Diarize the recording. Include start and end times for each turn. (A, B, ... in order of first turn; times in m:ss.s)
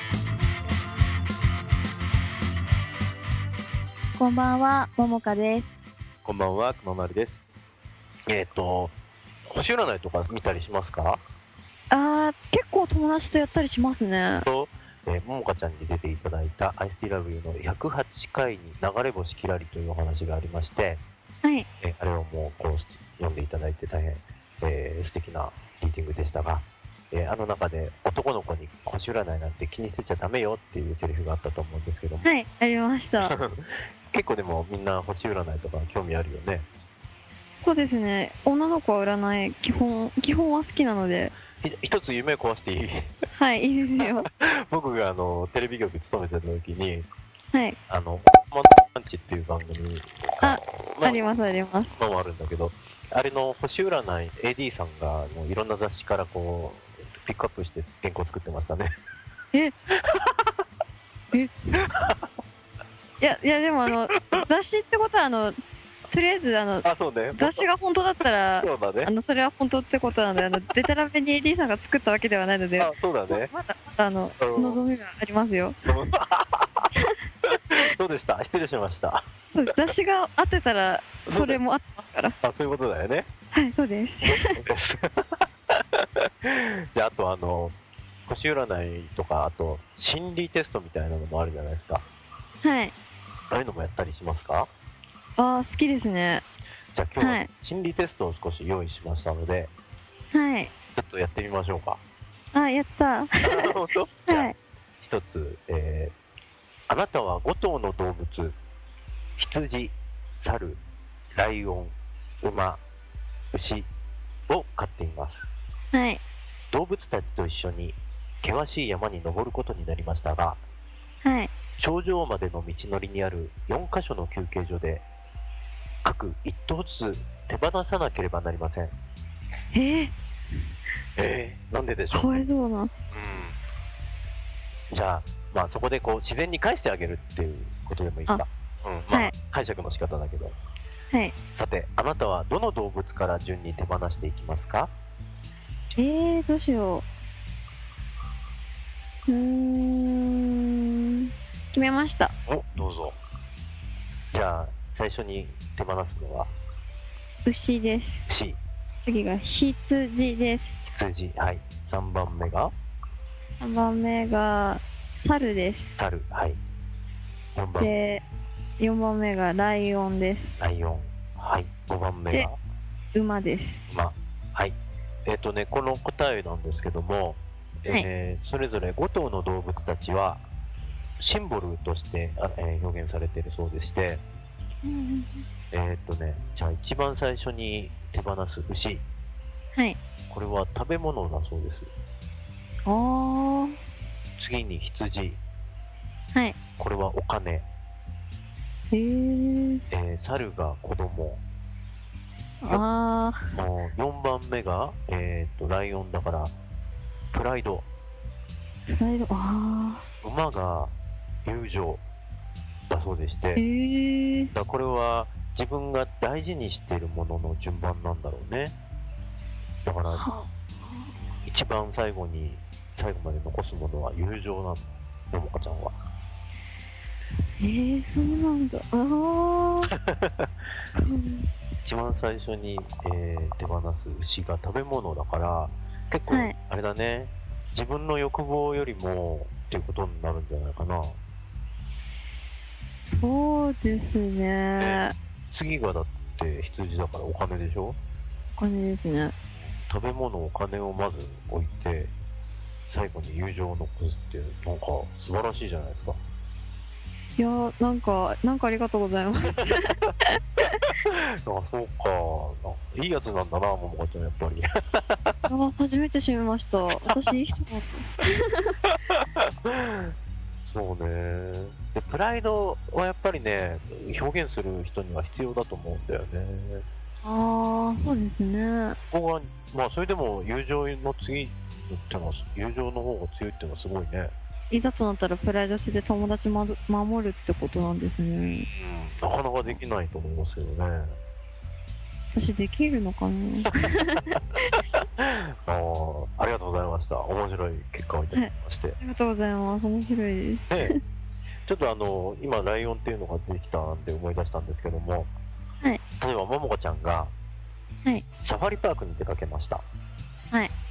0:04.2-0:05.8 A
0:06.2-0:07.4 B
0:08.3-0:09.0 B
0:09.5-0:11.2 B
0:11.9-0:14.5 A
0:14.4-0:21.0 B
0:21.8-0:32.2 B
0:32.2-0:33.3 A
0:33.2-0:36.7 B
0:37.6-0:41.3 A
0:41.6-0:43.1 B
0:43.3-0:44.3 A
0:44.0-0:47.1 B
0:47.9-0:51.2 B
0:50.4-0:52.0 A
0:52.0-0:58.9 B
0:59.9-1:00.5 B
1:01.8-1:02.2 B
1:03.2-1:05.6 A
1:06.1-1:15.8 A
1:06.8-1:07.6 B
1:08.6-1:09.1 B
1:12.8-1:13.5 B
1:14.4-1:14.8 B
1:15.9-1:16.9 B
1:17.5-1:19.2 B
1:19.5-1:22.4 A
1:21.2-1:21.6 B
1:22.4-1:23.3 B
1:23.5-1:24.6 A
1:24.6-1:32.0 B
1:32.6-1:32.9 A
1:33.5-1:34.7 B
1:35.4-1:36.4 A
1:36.9-1:39.7 B
1:37.2-1:37.5 A
1:40.3-1:40.7 A
1:40.9-1:42.0 B
1:42.5-1:43.7 A
1:43.4-1:46.1 B
1:44.3-1:44.5 A
1:46.9-1:48.6 B
1:49.4-1:50.8 B
1:51.3-1:52.8 B
1:53.5-1:53.9 B
1:54.5-1:55.5 B
1:55.9-1:56.2 A
1:56.7-2:00.6 B
2:01.2-2:01.5 A
2:01.8-2:05.0 B
2:06.0-2:08.9 B
2:09.7-2:10.1 A
2:11.1-2:12.4 B
2:12.1-2:12.9 A
2:13.1-2:13.6 B
2:14.9-2:20.6 B
2:21.5-2:24.9 B
2:25.9-2:27.0 A
2:29.3-2:32.3 A
2:32.5-2:33.2 B
2:34.3-2:36.5 B
2:37.4-2:38.2 A
2:38.3-2:38.6 B
2:39.0-2:40.8 A
2:40.8-2:42.7 B
2:43.6-2:45.9 A
2:45.9-2:46.6 B
2:47.5-2:47.9 B
2:47.8-2:48.2 A
2:48.8-2:50.5 A
2:50.6-2:52.6 B
2:53.1-2:53.8 A
2:53.9-3:00.4 B
3:01.2-3:04.2 B
3:04.8-3:05.4 A
3:05.7-3:09.0 B
3:10.3-3:11.9 B
3:12.8-3:13.8 A
3:14.4-3:15.4 B
3:16.8-3:17.6 B
3:18.9-3:19.8 A
3:19.9-3:21.4 B
3:22.6-3:23.4 A
3:23.5-3:26.5 B
3:27.3-3:27.9 B
3:28.9-3:30.0 A
3:30.2-3:30.9 B
3:31.4-3:32.0 B
3:32.9-3:33.6 B
3:33.6-3:34.5 A
3:34.5-3:38.8 B
3:39.8-3:40.3 B
3:40.0-3:41.1 A
3:41.4-3:46.0 B
3:47.6-3:49.9 A
3:50.0-3:50.5 B
3:51.0-3:51.5 A
3:51.8-4:01.2 B
3:56.3-3:56.5 A
4:03.0-4:05.1 A
4:04.8-4:08.0 B
4:08.6-4:09.3 A
4:09.8-4:12.1 B
4:12.9-4:16.2 B
4:17.4-4:20.9 A
4:21.0-4:25.4 B
4:25.5-4:28.7 A
4:28.9-4:30.1 B
4:30.7-4:36.8 B
4:37.2-4:39.0 A
4:39.0-4:44.3 B
4:44.7-4:48.7 A
4:48.7-4:51.1 B
4:52.3-4:54.8 A
4:54.9-4:59.0 B
4:58.3-5:01.0 A
5:00.7-5:00.9 B
5:01.6-5:05.3 B
5:06.2-5:07.3 B
5:08.4-5:09.8 B